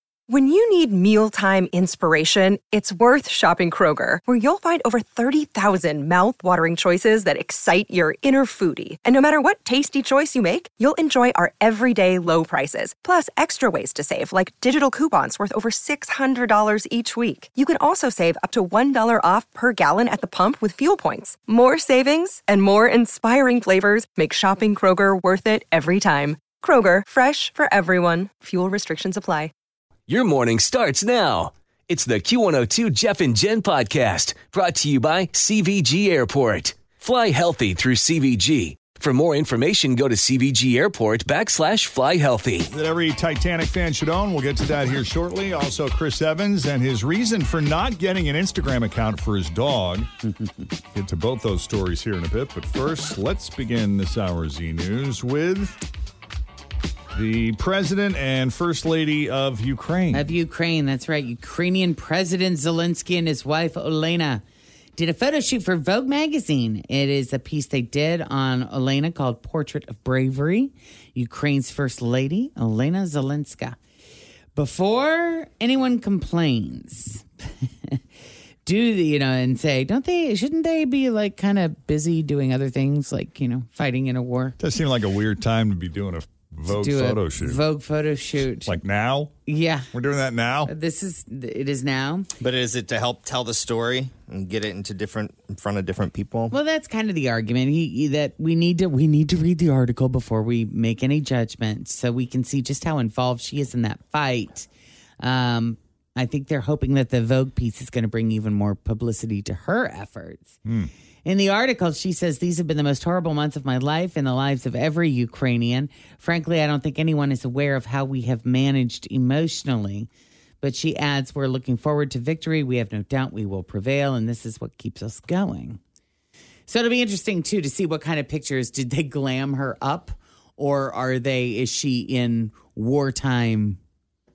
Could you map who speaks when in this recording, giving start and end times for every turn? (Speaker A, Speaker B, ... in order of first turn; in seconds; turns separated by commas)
Speaker A: 0.3-29.5, Speaker B: 30.1-42.7, Speaker C: 42.7-50.1, Speaker C: 50.9-55.8, Speaker C: 57.1-60.3, Speaker D: 60.1-64.4, Speaker D: 65.0-73.8, Speaker D: 74.5-78.0, Speaker D: 78.6-84.6, Speaker C: 84.6-87.6, Speaker D: 86.7-88.8, Speaker C: 88.7-89.3, Speaker D: 89.5-89.9, Speaker C: 89.9-90.7, Speaker D: 90.7-92.3, Speaker E: 92.4-96.5, Speaker D: 96.5-104.7, Speaker D: 105.2-110.6, Speaker C: 110.6-110.9, Speaker D: 111.2-120.1, Speaker D: 120.6-125.8, Speaker D: 126.7-133.8